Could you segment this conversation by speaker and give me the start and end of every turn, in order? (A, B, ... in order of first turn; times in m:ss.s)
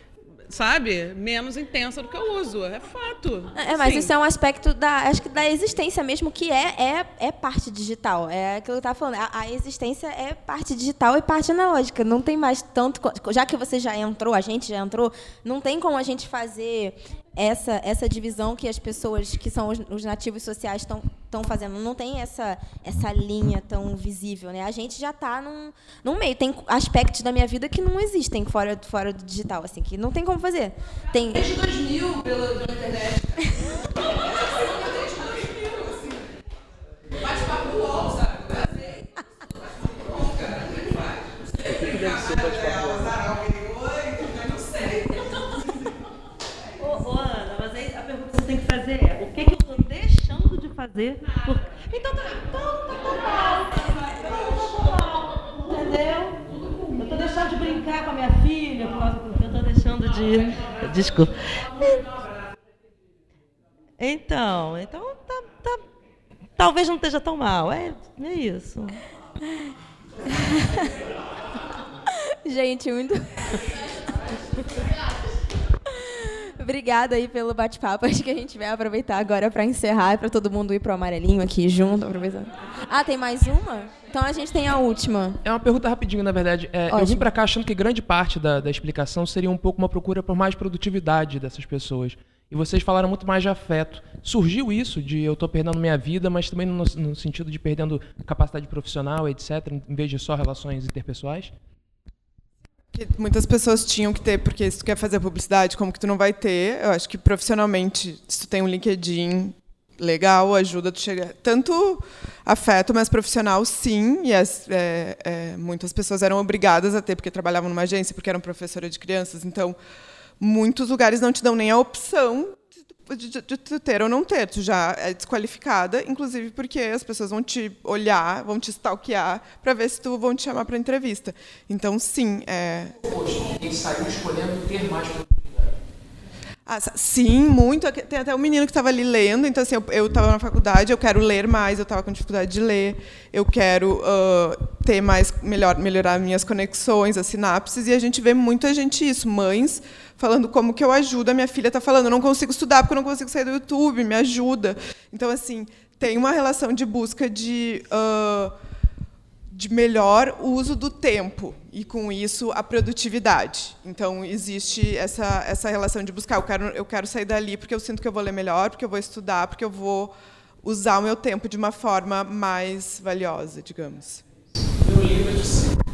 0:00.5-0:04.1 A
0:03.5-0:31.5 B
0:31.4-0:33.0 A
0:40.4-0:40.9 C
0:41.6-0:43.4 C
0:44.2-0:45.4 C
0:46.8-1:02.2 C
1:04.0-1:05.8 C
1:06.6-1:09.0 C
1:10.3-1:10.9 B
1:12.4-1:13.7 B
1:15.9-1:25.4 B
1:25.4-1:41.5 D
1:26.9-1:27.3 B
1:42.9-1:59.8 E
2:00.4-2:12.9 E
2:13.0-2:15.7 D
2:16.6-2:38.5 E
2:39.5-2:54.2 E
2:54.9-2:55.2 D